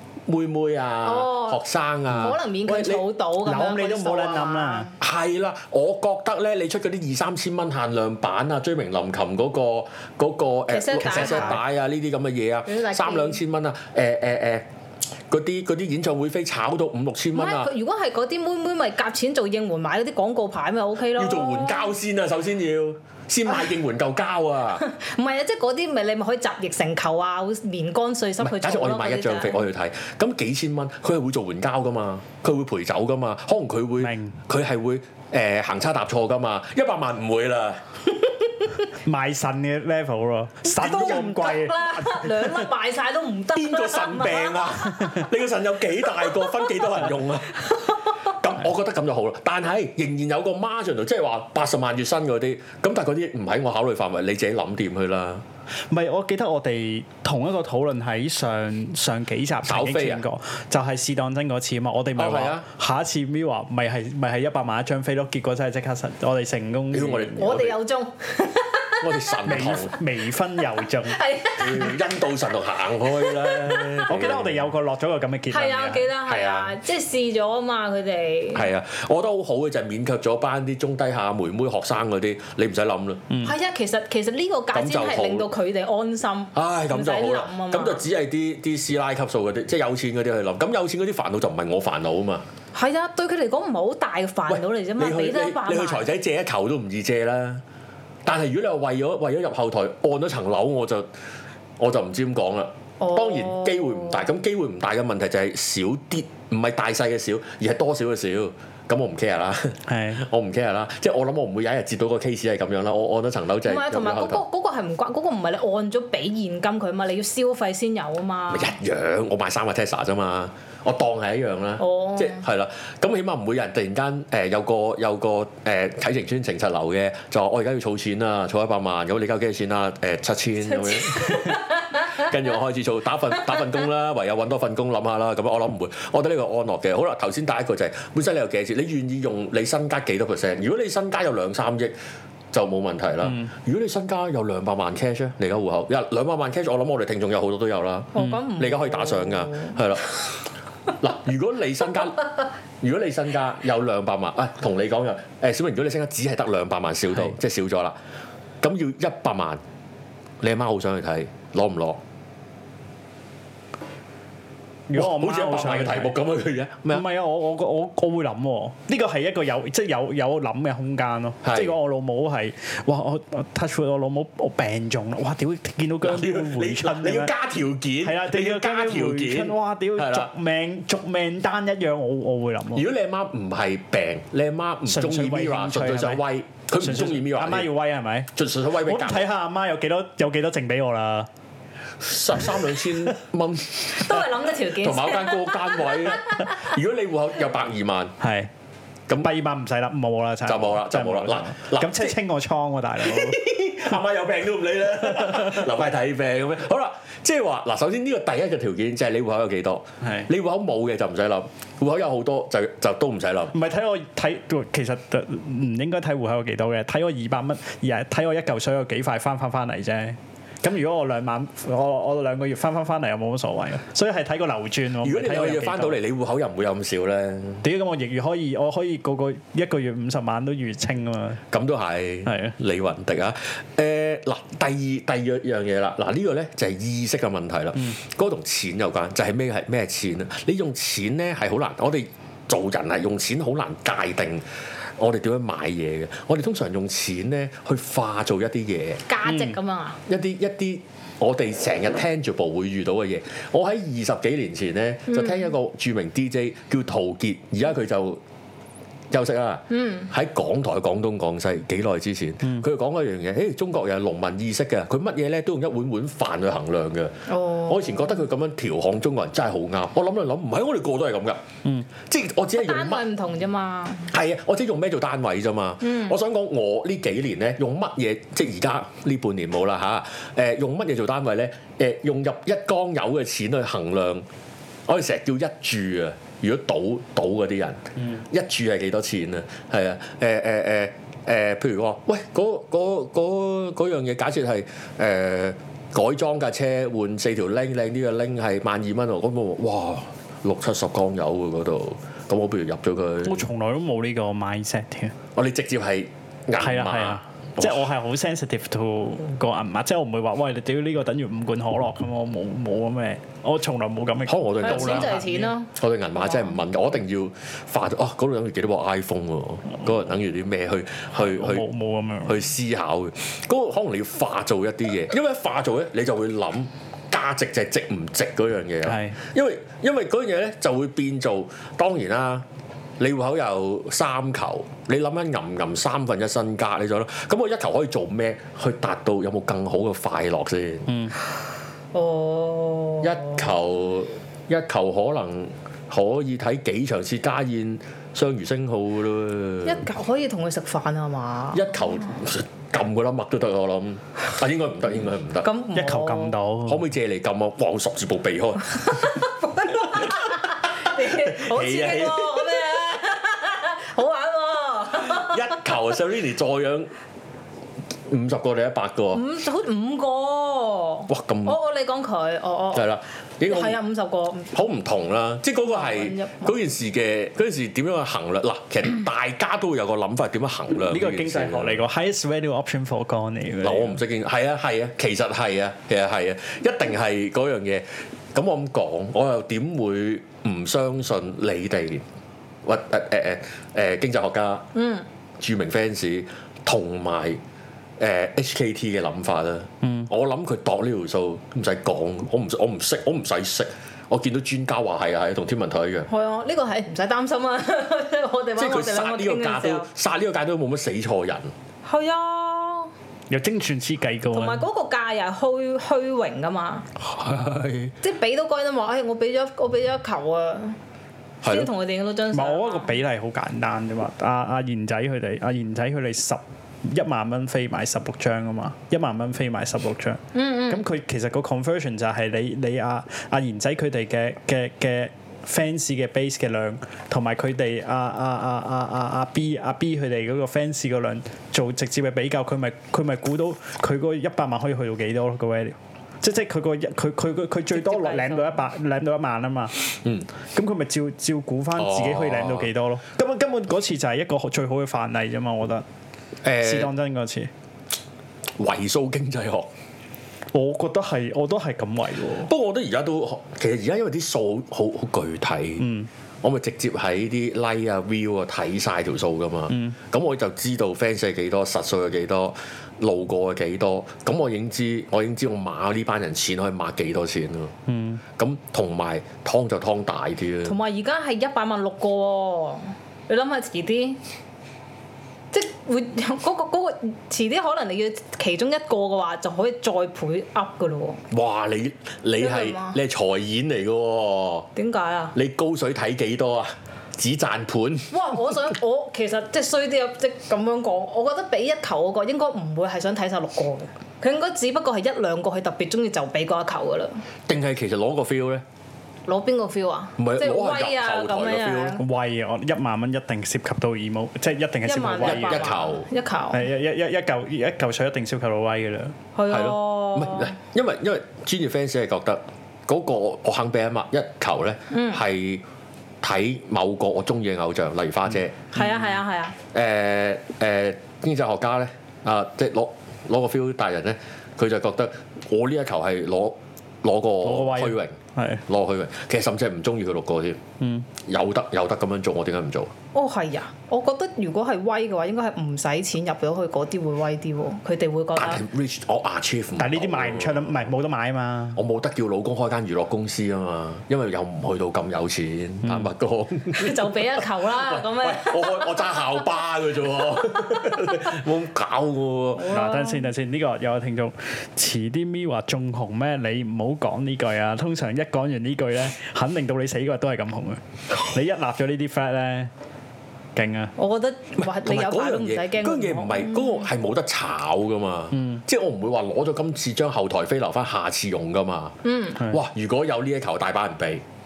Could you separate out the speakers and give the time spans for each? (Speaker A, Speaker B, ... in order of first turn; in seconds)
Speaker A: 0.3-3.0, 5.0-14.6, 15.3-17.7, 21.1-24.8, 28.4-37.8, 43.5-55.4, 59.6-60.2, 62.1-62.6, 66.9-67.8, 69.0-70.0, 71.5-74.7, 76.2-76.8, 78.5-83.3, 84.7-85.5, 86.5-92.4, 94.5-97.6, 98.2-101.1, 101.8-114.4, 118.5-141.9, 142.5-150.1, 151.0-152.3, 152.8-157.9, 158.6-159.6, 160.4-162.0, 164.9-167.0, 171.4-171.7, 176.0-180.3, 182.7-187.7, 188.3-189.3, 192.0-198.1, 200.4-202.1, 203.0-213.5, 225.0-227.6, 231.5-244.4, 245.0-249.0, 250.1-258.2, 259.1-267.1, 267.6-271.4, 272.1-273.0, 274.1-284.2, 284.9-303.4, 305.3-307.8, 314.2-321.6, 322.2-332.4, 333.0-340.9, 343.0-349.8, 351.5-355.5, 356.6-359.2, 359.8-362.6, 365.0-366.9, 368.1-369.2, 371.1-371.6, 372.7-373.8, 374.5-381.8, 383.6-392.1, 392.6-394.7, 395.4-397.4, 398.0-406.1, 408.6-411.5, 417.0-417.9, 421.4-421.7, 451.8-452.7, 456.4-456.9, 458.6-459.7, 462.4-477.7, 478.4-480.8, 491.3-494.7, 495.3-498.1, 507.5-508.6, 510.2-512.0, 515.2-516.0, 519.5-525.6, 526.2-528.6, 529.7-540.6, 541.2-542.9, 548.4-550.9, 551.7-562.7, 574.6-584.2
Speaker B: 1.0-1.6, 2.1-4.9, 10.7-11.6, 12.7-13.4, 17.3-21.9, 24.8-29.6, 40.7-45.2, 46.1-46.5, 67.4-69.2, 70.8-72.1, 73.0-74.2, 75.5-78.7, 83.4-88.0, 92.7-96.1, 103.0-104.2, 113.6-118.7, 121.8-122.4, 130.7-132.3, 148.1-149.9, 193.9-196.6, 249.1-250.0, 255.1-255.5, 259.7-260.1, 267.3-268.2, 272.5-274.1, 275.8-276.1, 314.6-316.6, 341.9-343.4, 349.6-351.7, 355.4-356.4, 358.8-365.6, 369.1-374.5, 375.7-376.6, 394.7-395.0, 406.1-409.9, 411.8-412.9, 414.3-416.9, 418.0-420.8, 421.4-422.9, 430.3-430.8, 447.7-448.6, 480.6-484.2, 485.5-491.2, 492.4-493.0, 494.8-495.3, 498.1-507.2, 509.2-512.0, 514.8-516.6, 519.3-520.5, 524.9-525.2, 528.7-529.5, 543.1-548.6, 556.7-559.4, 562.5-563.3, 574.0-576.9, 582.0-582.4
Speaker C: 3.4-4.9, 11.0-11.6, 34.0-34.4, 39.0-42.6, 55.9-67.6, 69.5-71.2, 74.1-76.1, 109.9-110.2, 164.9-166.1, 166.9-177.3, 178.0-182.9, 184.9-186.2, 186.8-188.3, 188.8-191.3, 198.2-198.5, 199.2-203.4, 210.0-210.3, 213.5-226.0, 227.6-231.4, 232.2-232.6, 249.2-249.6, 303.2-305.1, 306.6-315.2, 321.1-322.4, 328.8-329.2, 340.9-341.1, 355.7-356.8, 380.7-384.0, 413.3-414.6, 422.3-449.8, 450.5-455.8, 456.6-457.5, 460.5-462.5, 465.8-466.1, 469.7-469.9, 477.9-478.2, 512.0-515.7, 516.5-519.1, 528.8-529.1, 537.4-538.6, 540.8-541.0, 549.8-551.8, 555.8-556.1, 562.7-572.7, 573.5-573.9, 578.3-578.6